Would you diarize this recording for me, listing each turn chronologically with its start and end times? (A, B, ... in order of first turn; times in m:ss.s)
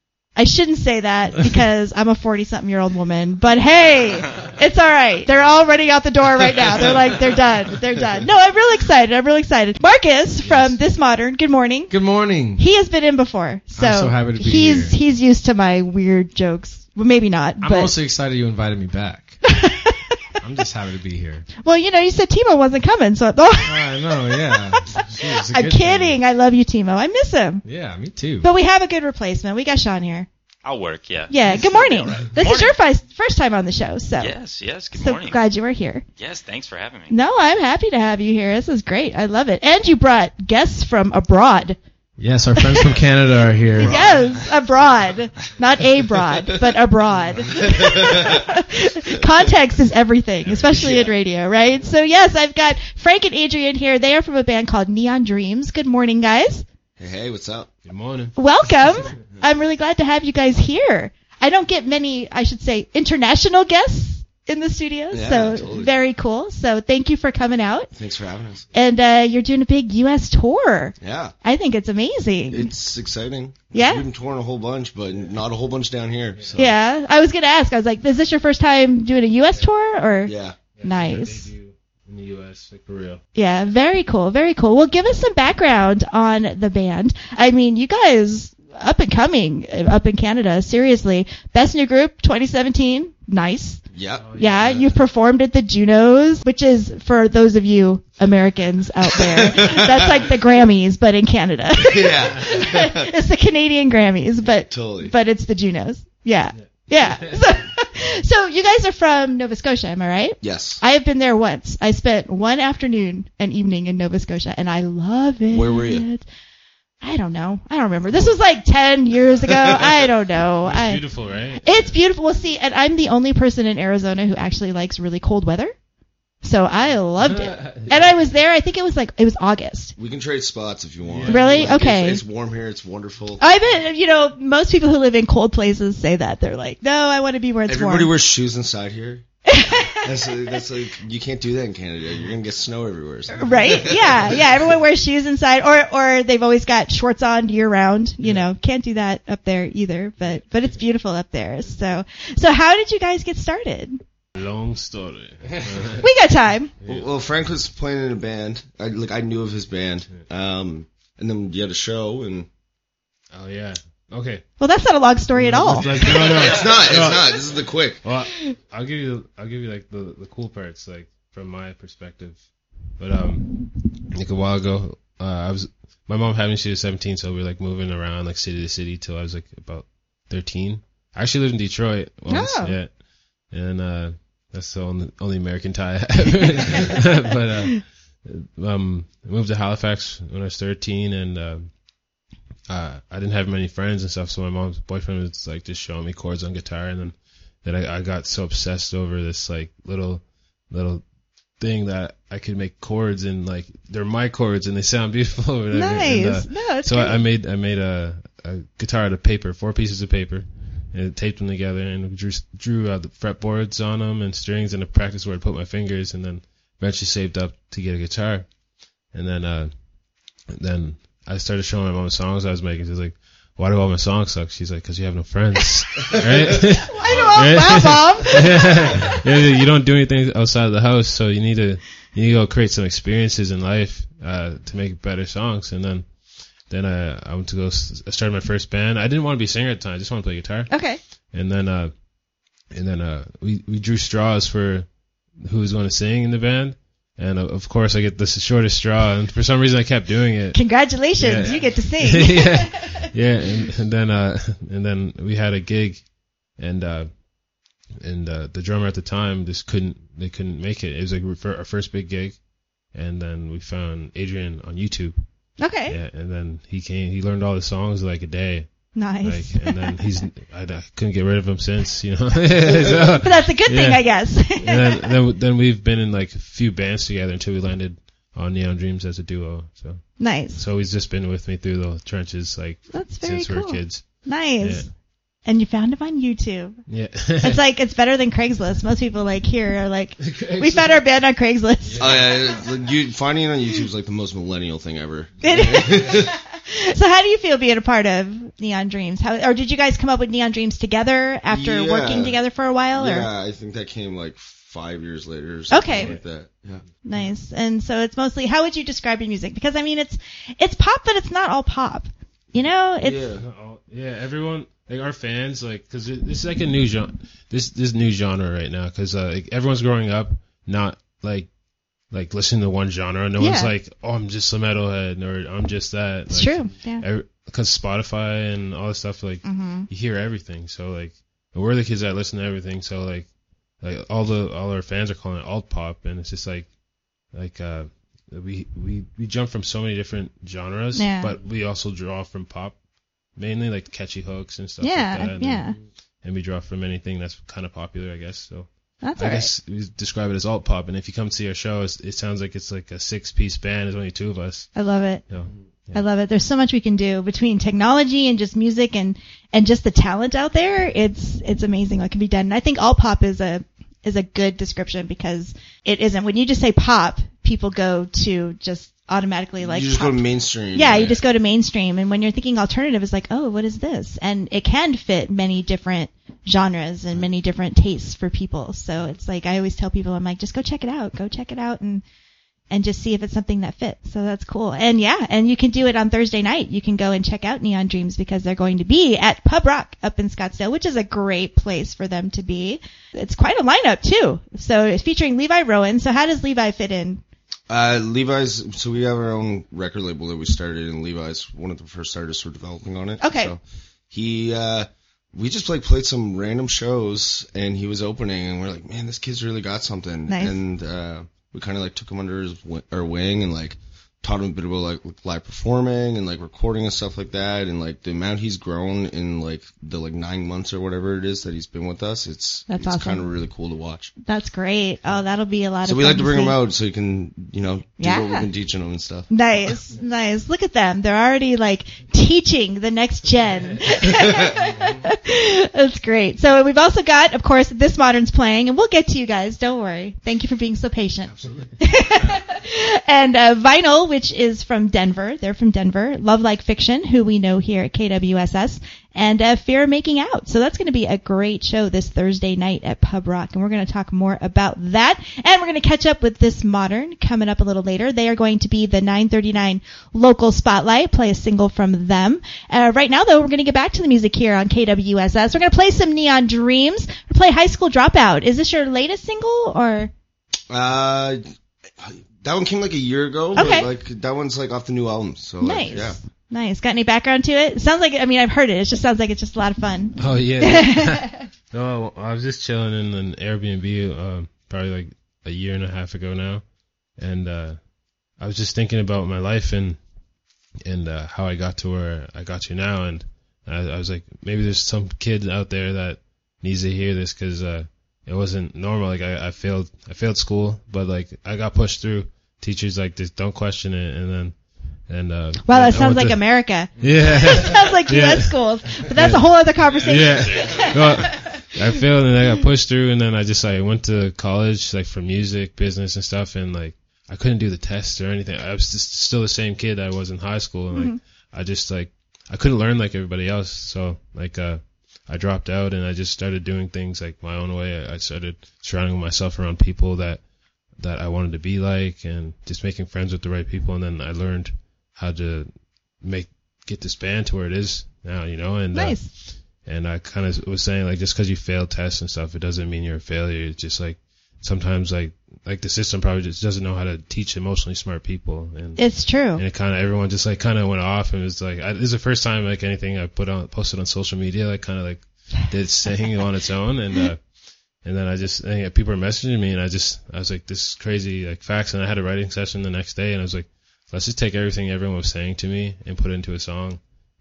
0:00.3-0:12.0 A
0:10.4-0:10.8 B
0:11.9-0:12.6 B
0:12.6-0:17.9 A
0:13.8-0:15.0 B
0:17.6-0:19.4 B
0:19.5-0:20.0 A
0:20.4-0:21.5 B
0:21.6-0:27.6 A
0:23.6-0:26.2 B
0:27.6-0:28.5 B
0:28.4-0:30.3 A
0:30.6-0:32.8 C
0:31.3-0:34.4 A
0:34.2-0:35.4 C
0:34.9-0:36.0 A
0:36.2-0:37.1 C
0:37.1-0:41.8 A
0:42.2-0:43.9 B
0:42.6-0:42.9 A
0:43.8-0:44.5 D
0:43.8-0:56.6 A
0:47.4-0:48.6 D
0:50.4-0:51.0 E
0:50.7-0:51.1 D
0:57.0-0:57.7 D
0:57.8-0:58.4 E
0:58.4-1:07.9 A
1:05.1-1:05.9 D
1:07.9-1:08.6 D
1:08.7-1:12.7 A
1:11.0-1:11.3 D
1:12.5-1:16.7 D
1:13.7-1:14.0 A
1:16.6-1:20.3 A
1:20.2-1:20.6 D
1:20.7-1:23.2 E
1:20.8-1:21.5 A
1:23.4-1:33.8 A
1:33.9-1:34.3 D
1:34.1-1:35.0 E
1:34.4-1:56.2 A
1:39.1-1:40.3 D
1:41.8-1:43.1 D
1:44.6-1:45.1 D
1:46.7-1:47.7 E
1:50.4-1:50.8 D
1:55.5-1:56.0 D
1:57.0-2:01.0 A
1:59.4-1:59.9 D
2:00.6-2:02.0 E
2:01.6-2:05.8 A
2:06.4-2:09.9 A
2:07.2-2:08.1 E
2:10.0-2:13.4 D
2:11.0-2:11.8 E
2:11.3-2:12.2 A
2:13.4-2:18.1 A
2:17.7-2:19.2 D
2:19.5-2:20.0 A
2:19.9-2:24.7 D
2:23.4-2:34.0 A
2:30.2-2:30.8 E
2:34.3-2:36.1 E
2:36.0-2:36.7 A
2:36.8-2:42.5 D
2:43.3-2:44.4 E
2:44.6-2:45.9 A
2:45.3-3:11.8 E
2:45.8-2:48.0 D
3:02.3-3:02.8 A
3:12.7-4:44.9 E
3:25.7-3:27.2 A
3:46.9-3:48.8 A
4:00.7-4:01.0 A
4:10.5-4:13.0 A
4:25.6-4:26.0 A
4:28.9-4:30.0 A
4:33.2-4:35.1 A
4:40.2-4:40.6 A
4:42.9-4:46.8 A
4:46.9-4:47.6 E
4:47.4-4:52.1 A
4:50.2-4:51.0 E
4:51.8-4:52.8 E
4:52.0-4:56.4 D
4:55.4-5:03.3 A
5:01.5-5:02.4 D
5:03.0-5:06.8 D
5:05.7-5:06.2 A
5:05.9-5:06.2 E
5:07.0-5:13.2 A
5:13.0-5:13.4 D
5:13.4-5:54.7 E
5:23.4-5:23.7 A
5:26.3-5:27.0 A
5:29.4-5:29.9 A
5:40.9-5:41.3 A
5:44.8-5:45.8 A
5:49.0-5:49.5 A
5:54.7-5:55.2 A
5:55.3-5:56.0 E
5:55.9-6:22.0 A
6:09.6-6:11.2 D
6:22.7-6:37.2 A
6:37.7-7:04.1 D
6:43.2-6:43.5 A
6:50.3-6:50.6 A
7:02.7-7:03.2 A
7:04.2-7:06.6 A
7:05.8-7:09.3 D
7:08.0-7:08.5 A
7:09.3-7:50.1 A
7:14.1-7:14.6 D
7:50.7-7:51.4 D
7:52.0-7:56.2 D
7:53.5-7:53.9 A
7:55.6-8:01.4 A
8:00.2-8:10.0 E
8:10.8-9:27.0 E
8:25.6-8:31.5 A
8:40.9-8:41.2 A
8:58.9-8:59.3 A
9:09.0-9:09.6 A